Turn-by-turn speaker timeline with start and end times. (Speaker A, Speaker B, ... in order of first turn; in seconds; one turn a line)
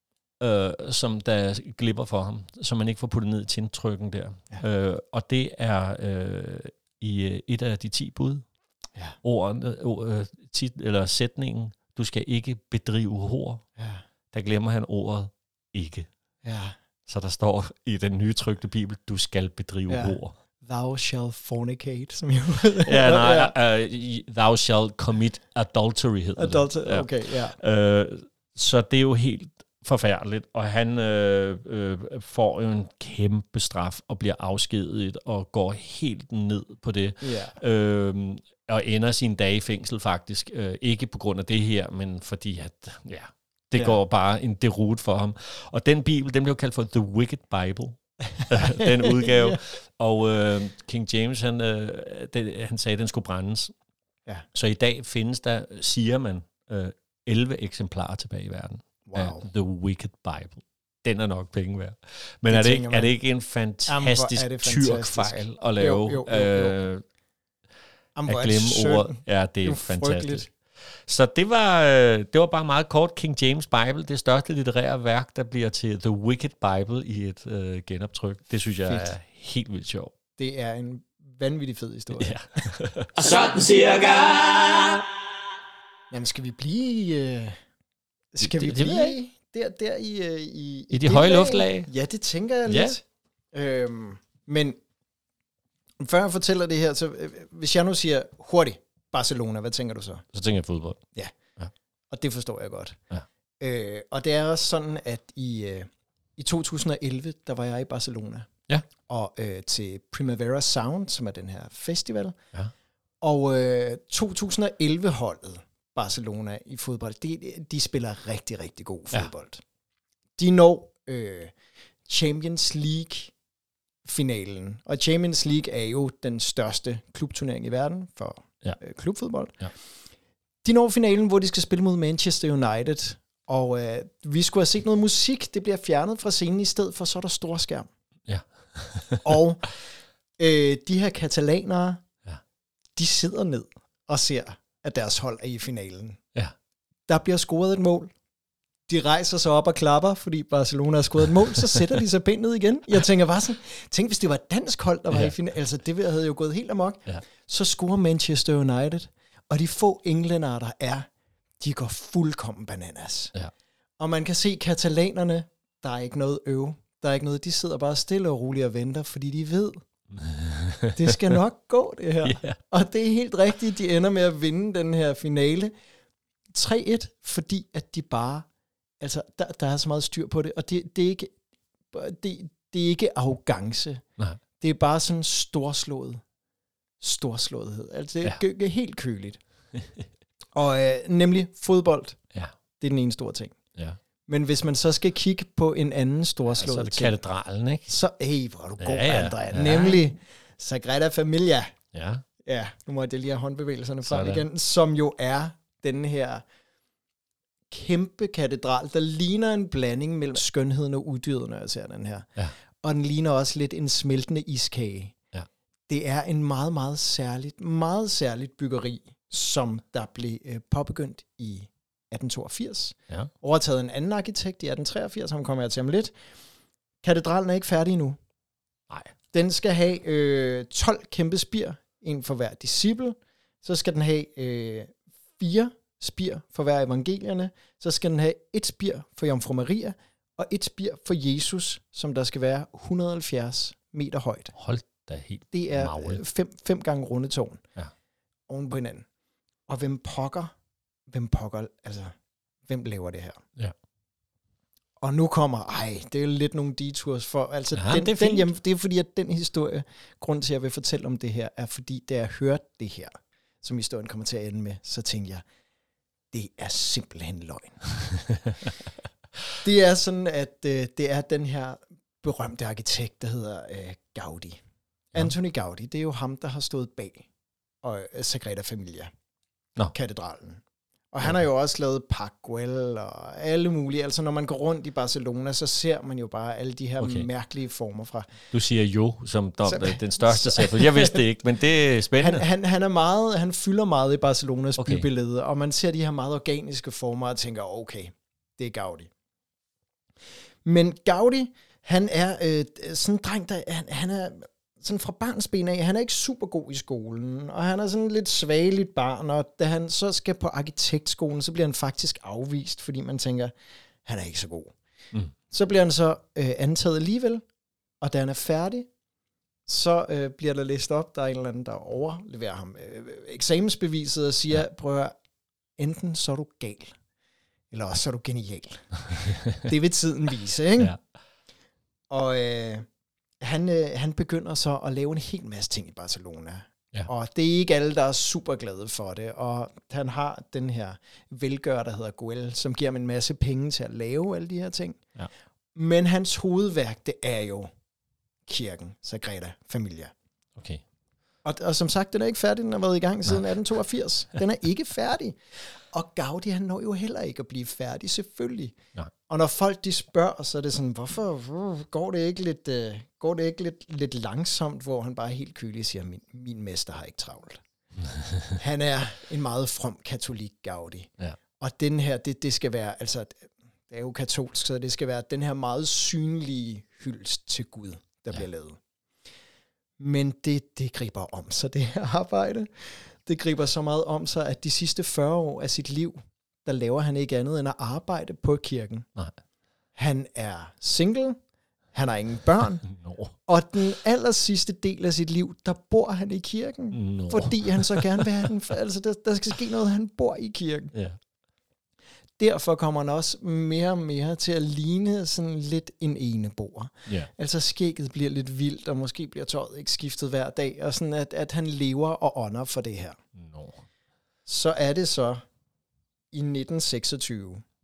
Speaker A: 0.4-8.4
Speaker A: 9.2-13.6
Speaker B: 13.8-14.0
Speaker A: 14.3-16.1
Speaker B: 16.4-16.8
Speaker A: 17.1-20.4
Speaker B: 19.9-23.5
Speaker A: 22.8-53.7
Speaker B: 26.4-27.6
Speaker B: 37.2-37.5
Speaker B: 48.5-49.6
Speaker A: 54.5-67.0
Speaker B: 59.1-59.4
Speaker B: 62.5-63.1
Speaker B: 63.9-66.8
Speaker B: 68.2-70.5
Speaker A: 68.3-70.5
Speaker A: 71.0-80.1
Speaker B: 78.8-79.1
Speaker B: 80.4-82.3
Speaker A: 82.2-83.1
Speaker C: 83.1-85.0
Speaker B: 86.1-87.6
Speaker B: 88.3-94.8
Speaker A: 88.4-89.2
Speaker A: 90.9-91.9
Speaker A: 92.7-93.0
Speaker B: 96.0-100.2
Speaker A: 100.3-101.0
Speaker B: 102.1-103.0
Speaker B: 103.6-112.4
Speaker B: 113.2-119.6
Speaker B: 120.4-121.5
Speaker B: 122.1-123.3
Speaker B: 124.0-129.6
Speaker B: 130.6-137.9
Speaker A: 138.3-139.3
Speaker B: 139.2-139.7
Speaker B: 140.4-142.0
Speaker B: 142.9-146.2
Speaker B: 147.1-148.1
Speaker B: 148.9-161.1
Speaker B: 161.6-163.3
Speaker B: 164.0-169.8
Speaker A: 170.1-171.2
Speaker B: 170.9-175.7
Speaker A: 172.2-172.6
Speaker B: 176.5-178.5
Speaker B: 179.0-181.3
Speaker B: 181.9-184.0
Speaker B: 184.6-186.2
Speaker B: 187.0-189.4
Speaker B: 190.5-192.2
Speaker B: 192.8-193.6
Speaker B: 194.3-197.1
Speaker A: 196.5-197.9
Speaker B: 197.9-201.7
Speaker A: 198.8-200.0
Speaker A: 201.9-202.2
Speaker B: 202.4-206.4
Speaker A: 204.0-204.4
Speaker B: 207.7-212.3
Speaker B: 212.8-215.1
Speaker B: 215.9-226.1
Speaker B: 227.0-228.2
Speaker B: 229.3-244.5
Speaker A: 244.5-246.2
Speaker B: 245.5-247.6
Speaker B: 248.5-249.1
Speaker B: 249.7-250.5
Speaker B: 251.1-252.1
Speaker B: 252.7-253.4
Speaker B: 255.0-265.4
Speaker A: 257.7-258.5
Speaker B: 266.3-267.8
Speaker B: 269.6-274.6
Speaker B: 275.1-277.3
Speaker B: 277.8-279.1
Speaker B: 279.9-288.3
Speaker A: 287.0-287.3
Speaker A: 288.5-292.4
Speaker B: 289.6-291.2
Speaker B: 292.2-299.1
Speaker A: 294.8-295.1
Speaker B: 300.6-313.5
Speaker B: 314.0-314.7
Speaker B: 315.5-317.4
Speaker B: 318.0-318.9
Speaker B: 319.6-325.1
Speaker B: 325.8-326.9
Speaker B: 327.7-330.9
Speaker A: 329.3-329.6
Speaker B: 332.1-332.9
Speaker B: 333.4-345.0
Speaker B: 345.7-347.7
Speaker B: 348.5-350.1
Speaker A: 350.6-350.8
Speaker B: 351.4-355.4
Speaker B: 355.9-358.8
Speaker B: 359.3-367.6
Speaker A: 368.1-368.5
Speaker B: 368.6-378.8
Speaker B: 380.0-389.1
Speaker B: 389.9-391.4
Speaker B: 391.9-392.8
Speaker A: 392.9-393.3
Speaker B: 393.5-400.9
Speaker A: 396.9-398.3
Speaker B: 402.4-413.2
Speaker A: 413.4-413.8
Speaker B: 414.4-415.4
Speaker B: 416.3-417.6